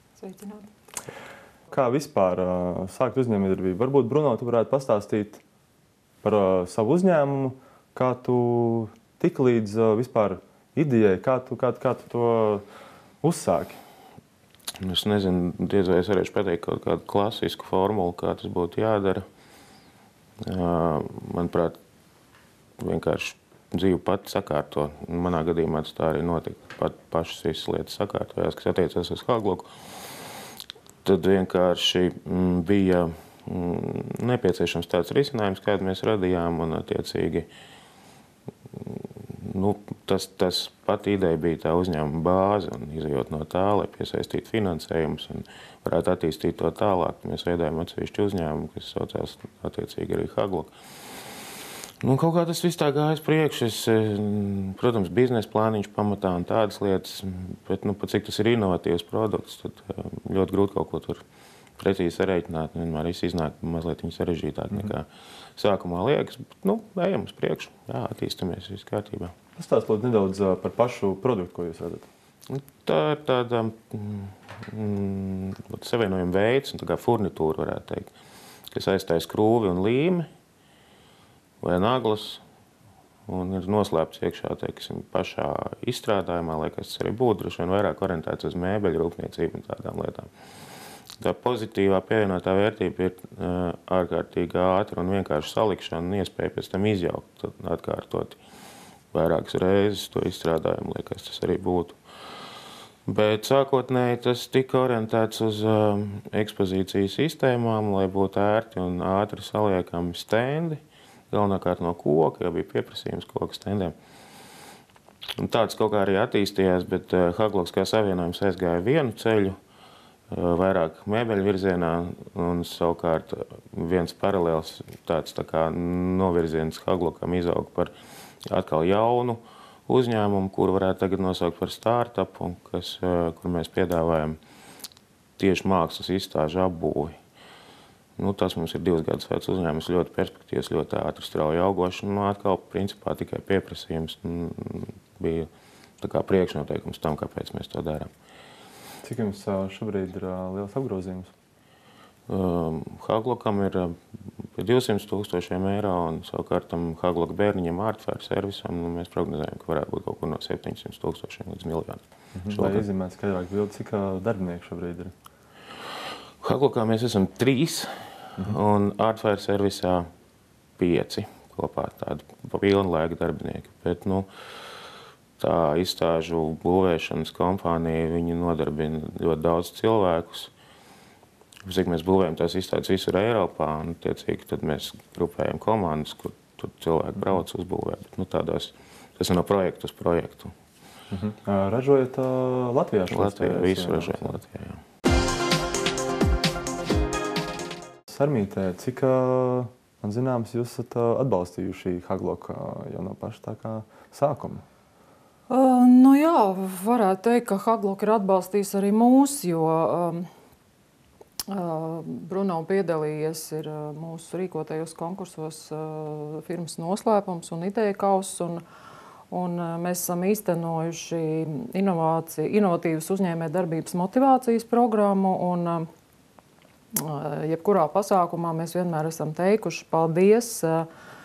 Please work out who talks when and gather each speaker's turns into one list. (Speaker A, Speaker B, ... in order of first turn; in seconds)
Speaker A: 0.2-0.7, 205.5-210.3, 211.5-218.6, 219.3-225.9, 226.9-230.9
Speaker B: 1.7-5.4, 6.2-12.7, 13.2-13.8, 69.6-72.1, 149.0-151.3, 162.4-165.1, 191.1-194.4, 198.1-204.6
Speaker C: 14.8-19.2, 20.4-21.8, 22.8-30.2, 31.0-37.5, 38.7-50.7, 52.0-61.2, 61.8-69.3, 72.5-78.1, 78.7-80.3, 81.6-82.4, 83.3-90.3, 91.2-98.4, 99.1-102.0, 103.1-113.9, 115.4-119.6, 120.3-127.9, 128.5-134.4, 135.4-137.2, 138.2-145.5, 146.0-148.1, 152.3-162.8, 166.4-170.1, 170.8-174.3, 175.4-180.5, 181.7-190.5, 193.1-194.8